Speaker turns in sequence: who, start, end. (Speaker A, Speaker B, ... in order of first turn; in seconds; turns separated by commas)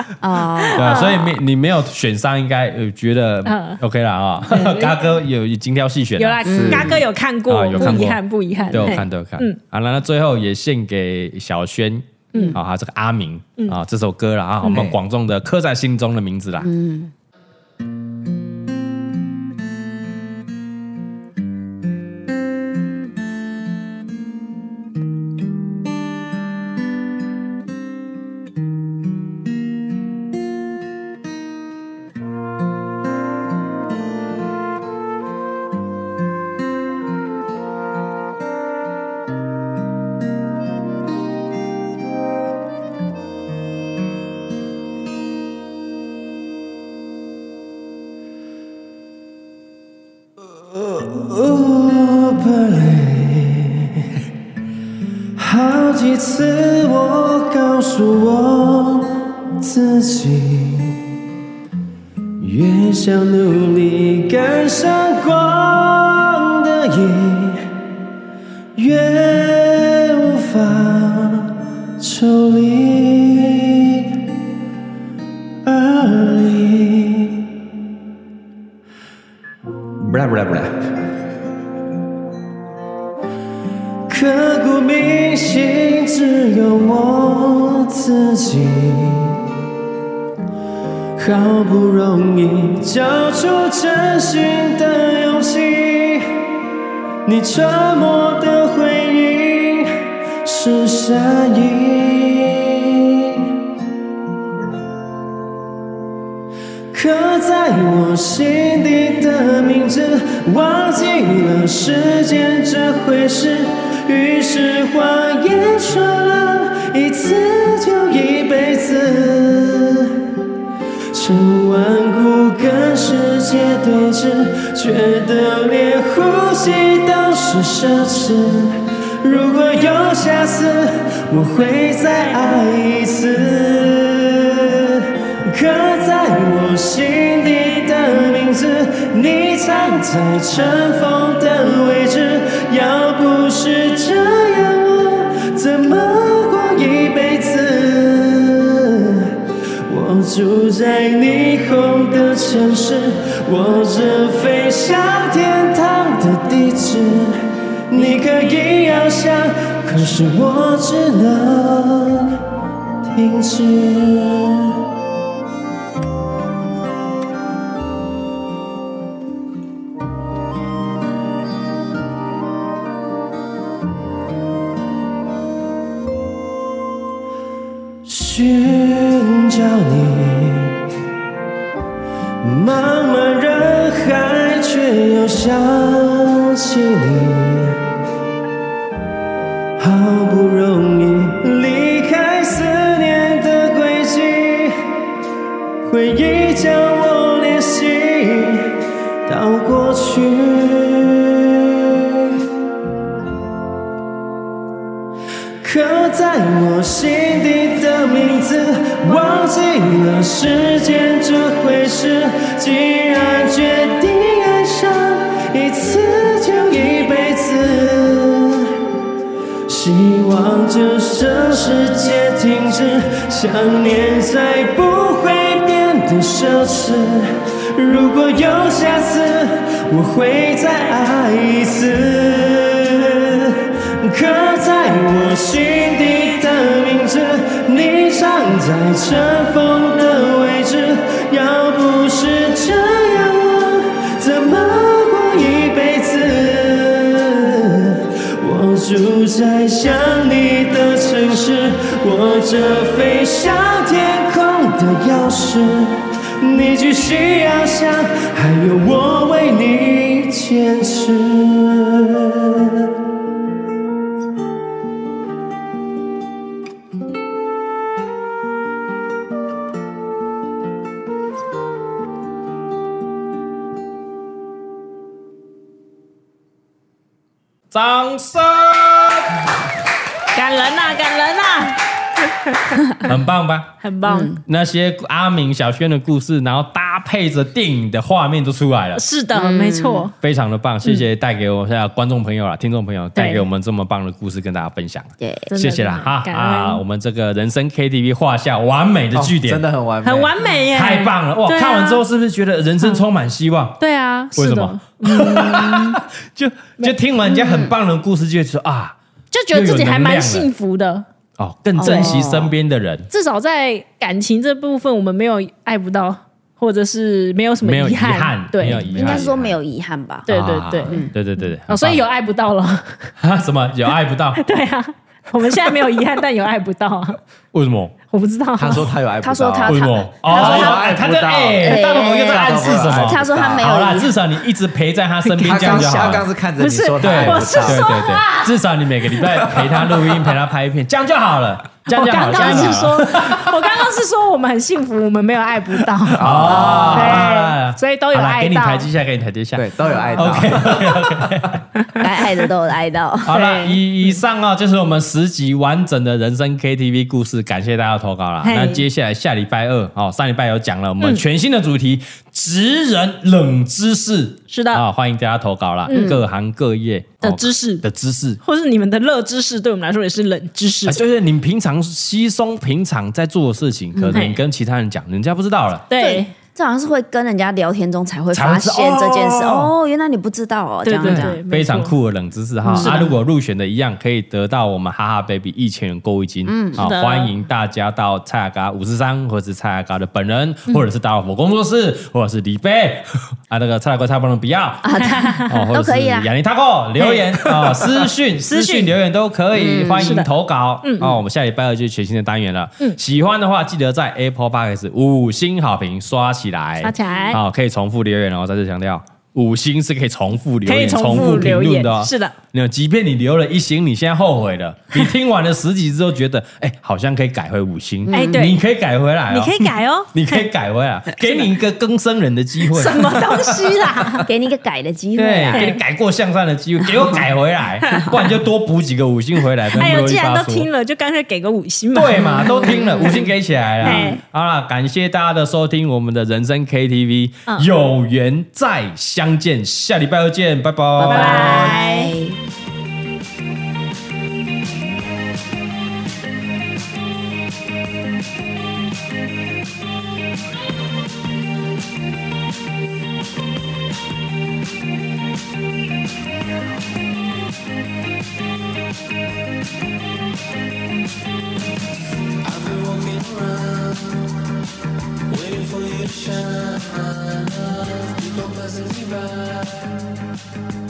Speaker A: 0.2-1.0, Speaker B: 0.8-1.3, Speaker C: 0.8-16.7, Speaker B: 3.5-3.8, Speaker B: 4.5-5.0, Speaker B: 6.2-9.6, Speaker A: 6.5-7.0, Speaker D: 6.5-7.0, Speaker A: 7.8-8.1, Speaker A: 8.7-9.1, Speaker B: 12.3-12.6, Speaker D: 14.7-14.9, Speaker A: 16.6-17.1, Speaker E: 50.4-54.2, Speaker E: 55.4-61.1, Speaker E: 62.4-67.7, Speaker E: 68.8-74.3, Speaker E: 75.7-77.7, Speaker E: 80.0-80.8, Speaker E: 84.1-89.5, Speaker E: 91.2-96.6, Speaker E: 97.2-103.5, Speaker E: 106.9-120.4, Speaker E: 121.1-162.4, Speaker E: 163.0-164.8, Speaker E: 178.1-180.9, Speaker E: 182.4-187.9, Speaker E: 189.8-195.1, Speaker E: 195.8-202.5, Speaker E: 205.6-218.9, Speaker E: 219.7-263.0, Speaker C: 277.7-279.5, Speaker B: 280.3-283.1, Speaker C: 283.0-283.8, Speaker B: 283.8-284.4, Speaker A: 284.0-284.4, Speaker C: 284.4-289.1, Speaker B: 288.9-290.1, Speaker A: 289.3-290.1, Speaker C: 290.2-299.6, Speaker B: 293.2-293.5, Speaker A: 295.2-295.5, Speaker B: 295.5-296.8, Speaker D: 299.1-300.3, Speaker B: 300.0-302.0, Speaker C: 300.7-303.8, Speaker B: 303.8-306.0, Speaker C: 304.4-309.0, Speaker A: 307.4-307.7, Speaker B: 309.3-311.1, Speaker C: 309.5-310.5, Speaker C: 311.4-313.1, Speaker A: 311.8-312.5, Speaker B: 311.8-312.2, Speaker B: 313.1-319.2, Speaker C: 317.6-319.6, Speaker A: 318.6-320.3, Speaker B: 320.3-323.1, Speaker C: 320.3-322.0, Speaker A: 320.9-321.1, Speaker C: 323.2-324.4, Speaker B: 324.4-327.2, Speaker C: 327.5-327.9, Speaker B: 328.1-328.9, Speaker D: 328.6-333.7, Speaker A: 329.2-331.0, Speaker C: 329.6-336.3, Speaker A: 331.6-334.1, Speaker B: 335.2-338.6, Speaker D: 335.4-337.9, Speaker C: 337.0-343.6, Speaker B: 339.2-339.5, Speaker D: 339.3-340.1, Speaker B: 341.9-348.9, Speaker C: 346.1-351.6, Speaker D: 346.1-347.3, Speaker A: 346.4-347.0, Speaker D: 349.5-351.6, Speaker A: 349.9-350.4, Speaker B: 351.8-352.1, Speaker A: 351.9-353.3, Speaker C: 353.2-368.4, Speaker B: 353.3-353.8, Speaker B: 358.4-358.9, Speaker B: 364.5-364.9, Speaker A: 365.9-366.2, Speaker B: 367.2-367.9, Speaker B: 368.4-371.0, Speaker C: 370.9-375.9, Speaker A: 373.9-374.2, Speaker B: 374.1-374.4, Speaker B: 375.9-376.3, Speaker A: 376.0-381.4, Speaker C: 378.3-379.7, Speaker B: 380.8-381.9, Speaker C: 381.0-423.4, Speaker A: 382.6-383.1, Speaker B: 382.7-383.1, Speaker A: 386.5-386.8, Speaker B: 386.8-387.3, Speaker A: 394.8-396.3, Speaker B: 395.0-395.6, Speaker B: 397.0-397.2, Speaker B: 398.5-398.9, Speaker A: 399.5-400.2, Speaker B: 400.0-400.3, Speaker B: 400.8-401.2, Speaker B: 406.8-407.4, Speaker B: 410.6-412.4, Speaker A: 418.1-418.5, Speaker B: 418.1-418.6, Speaker B: 419.3-420.1, Speaker B: 421.2-421.5, Speaker B: 422.7-424.3, Speaker A: 424.3-425.8, Speaker C: 425.2-430.7, Speaker B: 425.5-425.8, Speaker A: 427.0-427.2, Speaker B: 429.7-433.3, Speaker C: 431.9-441.8, Speaker A: 432.1-433.3, Speaker B: 433.8-434.2, Speaker A: 433.8-434.2, Speaker A: 441.0-442.4, Speaker B: 441.1-442.1, Speaker E: 462.4-464.3, Speaker E: 465.3-469.9